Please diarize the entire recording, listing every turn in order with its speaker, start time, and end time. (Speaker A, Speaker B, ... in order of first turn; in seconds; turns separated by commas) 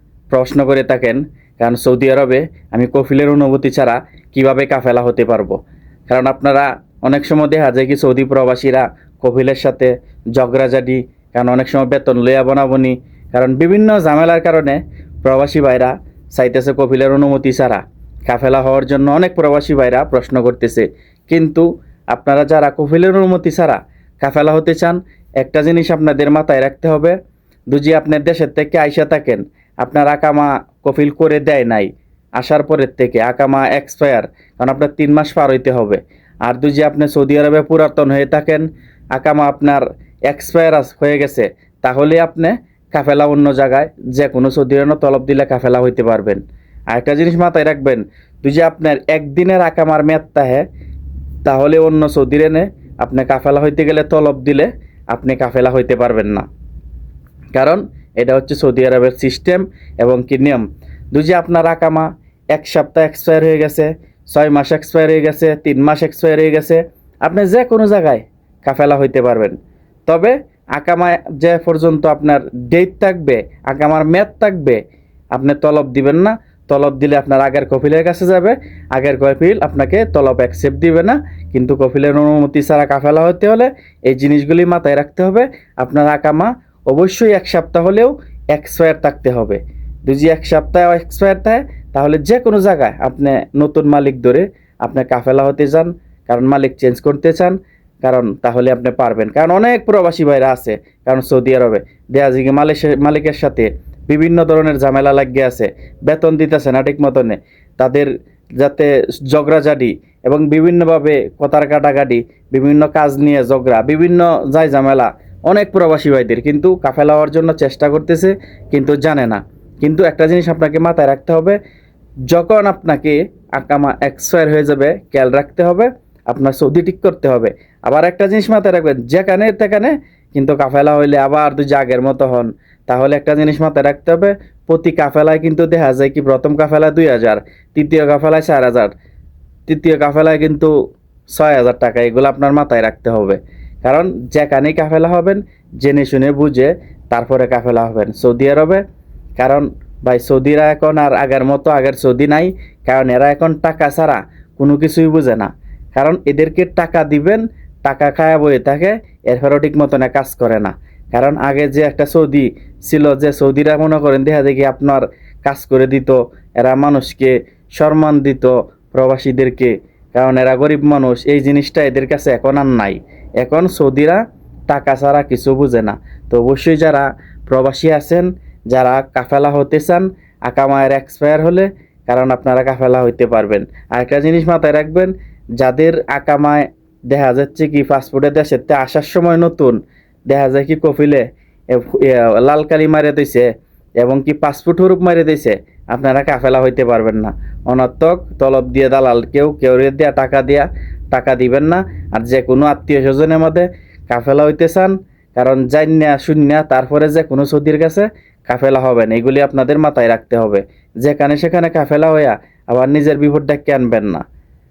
Speaker A: 0.3-5.6, Speaker A: 6.1-27.1, Speaker A: 27.7-50.6, Speaker A: 51.4-56.4, Speaker A: 57.5-69.5, Speaker A: 70.1-74.8, Speaker A: 75.3-121.6, Speaker A: 122.3-138.9, Speaker A: 139.7-140.7, Speaker A: 141.3-148.8, Speaker A: 149.4-193.5, Speaker A: 194.0-214.2